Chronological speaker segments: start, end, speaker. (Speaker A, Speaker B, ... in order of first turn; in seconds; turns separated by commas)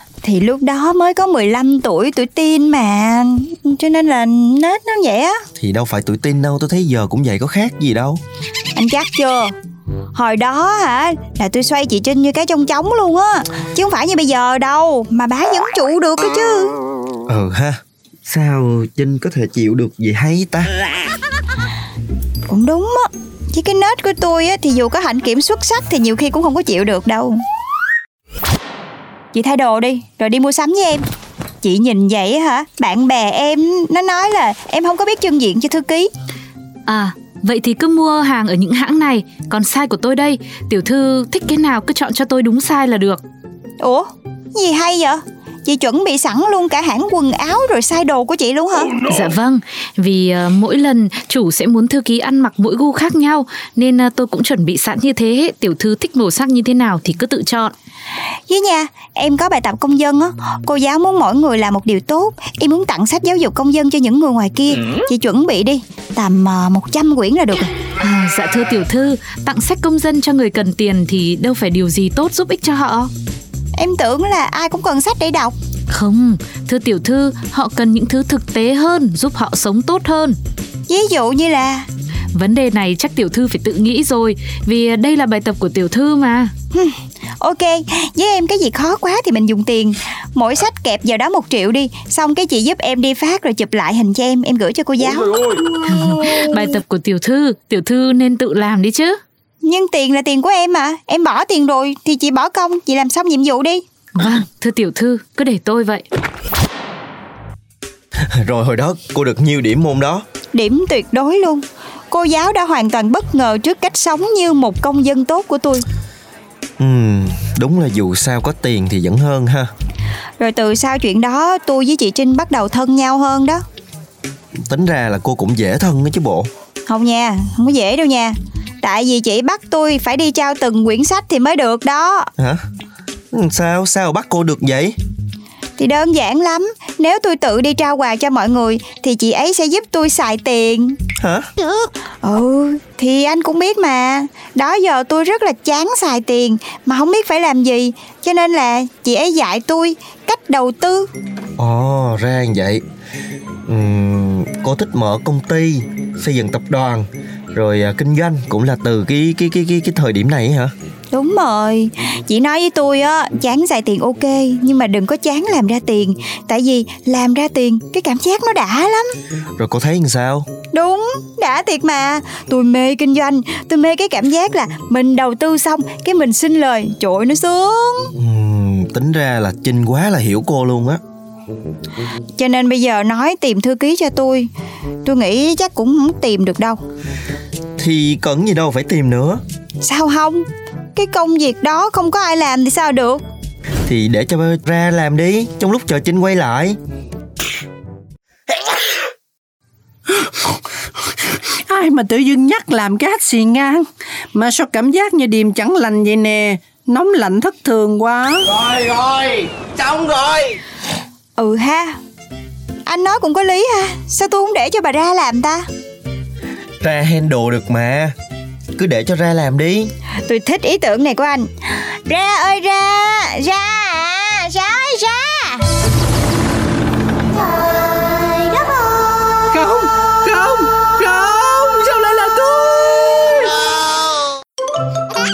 Speaker A: 0.2-5.4, Speaker B: 5.6-8.2, Speaker A: 8.8-9.5, Speaker A: 10.1-16.7, Speaker B: 17.3-20.7, Speaker A: 22.5-27.4, Speaker A: 29.3-31.0, Speaker A: 31.6-36.1, Speaker C: 36.9-43.2, Speaker A: 43.8-48.9, Speaker C: 49.0-57.7, Speaker A: 58.5-67.7, Speaker C: 68.0-73.1, Speaker A: 73.7-75.5, Speaker C: 75.9-80.3, Speaker A: 80.9-81.8, Speaker C: 82.3-86.5, Speaker A: 86.7-95.6, Speaker C: 95.9-99.2, Speaker A: 99.6-103.8, Speaker C: 104.1-106.0, Speaker B: 108.3-110.2, Speaker A: 110.5-115.8, Speaker B: 116.8-119.7, Speaker A: 120.4-123.6, Speaker B: 124.7-126.5, Speaker A: 126.9-132.3, Speaker B: 133.3-134.9, Speaker A: 135.8-140.9, Speaker B: 141.2-141.5, Speaker A: 142.2-151.1, Speaker B: 151.6-152.8, Speaker B: 153.7-160.7, Speaker A: 161.1-169.1, Speaker B: 169.6-170.4, Speaker A: 170.7-178.1, Speaker B: 178.2-181.0, Speaker A: 182.4-184.5, Speaker A: 185.0-186.8, Speaker B: 187.8-189.4, Speaker A: 189.8-190.4, Speaker A: 190.9-193.2, Speaker B: 193.8-196.8, Speaker D: 201.7-208.6, Speaker A: 211.4-211.9, Speaker A: 212.8-215.6, Speaker B: 216.8-218.1, Speaker B: 218.8-219.9, Speaker A: 220.2-221.5, Speaker A: 222.1-225.4, Speaker D: 229.5-233.5